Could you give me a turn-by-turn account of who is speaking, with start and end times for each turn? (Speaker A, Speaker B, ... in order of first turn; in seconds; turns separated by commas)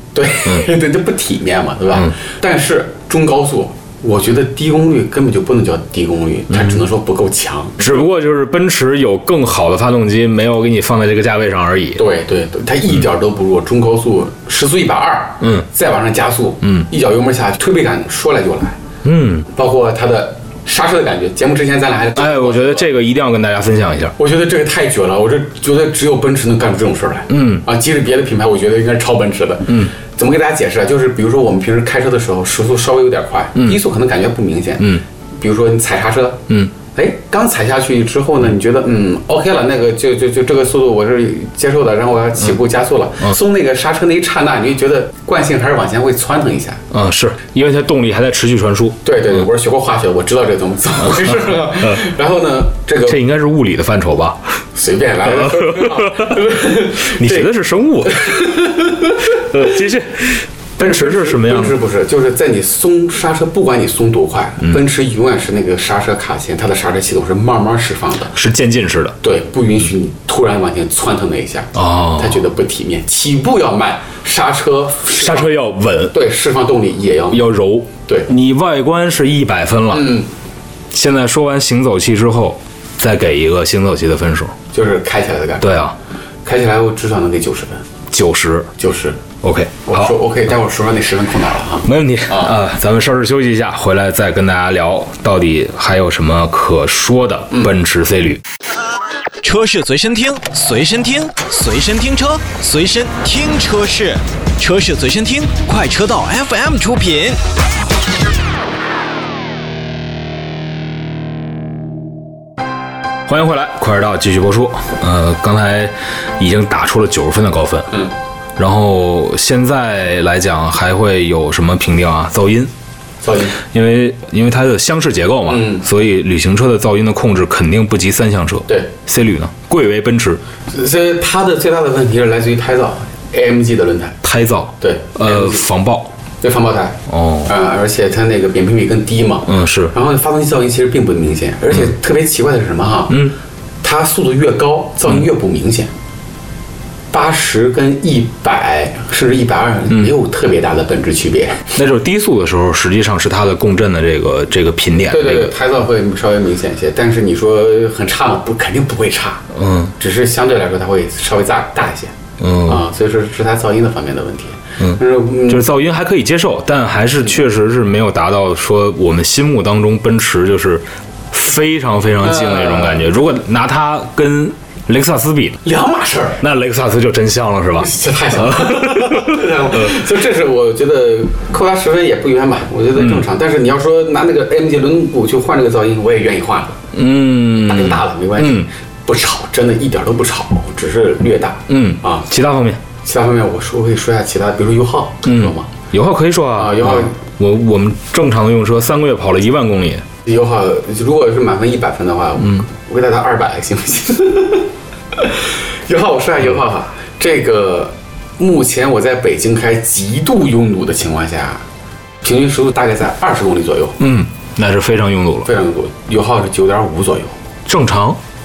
Speaker A: 0.1-7.9, Speaker B: 7.8-12.0, Speaker A: 12.0-18.8, Speaker B: 15.4-15.7, Speaker B: 19.0-19.5, Speaker A: 19.5-22.9, Speaker B: 22.1-24.1, Speaker A: 24.2-46.8, Speaker B: 27.3-27.6, Speaker B: 46.9-49.4, Speaker A: 49.0-53.2, Speaker B: 51.0-52.0, Speaker B: 53.0-54.4, Speaker A: 54.8-57.5, Speaker B: 55.2-61.8, Speaker A: 58.0-59.4, Speaker A: 60.8-68.3, Speaker B: 68.3-69.2, Speaker A: 69.2-75.5, Speaker B: 71.8-72.4, Speaker B: 75.1-76.2, Speaker A: 76.1-77.5, Speaker B: 77.3-80.2, Speaker A: 79.9-80.3, Speaker B: 80.9-84.5, Speaker A: 84.7-85.9, Speaker B: 85.6-86.0, Speaker A: 86.5-87.8, Speaker B: 88.1-88.7, Speaker A: 88.8-89.2, Speaker B: 89.4-90.1, Speaker A: 89.9-92.6, Speaker B: 91.8-98.4, Speaker C: 99.4-107.4, Speaker B: 113.3-118.0, Speaker B: 118.6-122.7, Speaker A: 123.2-123.6, Speaker B: 123.6-130.4, Speaker A: 125.5-125.8, Speaker A: 130.7-134.2, Speaker B: 134.2-136.1, Speaker A: 134.8-135.7, Speaker A: 136.4-143.3, Speaker B: 137.1-137.5, Speaker B: 139.5-139.9, Speaker A: 143.8-145.9, Speaker A: 147.1-151.7, Speaker B: 151.8-155.5, Speaker A: 155.1-159.4, Speaker B: 159.6-159.9, Speaker A: 160.0-165.7, Speaker B: 162.4-162.8, Speaker B: 164.8-175.6, Speaker A: 172.2-173.1, Speaker A: 175.6-176.4, Speaker B: 176.4-179.9, Speaker A: 177.8-186.8, Speaker B: 183.0-183.2, Speaker B: 186.9-188.7, Speaker A: 187.6-192.3, Speaker B: 191.7-192.8, Speaker A: 193.0-195.7, Speaker B: 195.2-200.1, Speaker A: 196.6-197.2, Speaker A: 200.2-211.6, Speaker A: 212.2-214.0, Speaker B: 214.0-215.5, Speaker A: 215.5-217.3, Speaker B: 217.7-218.2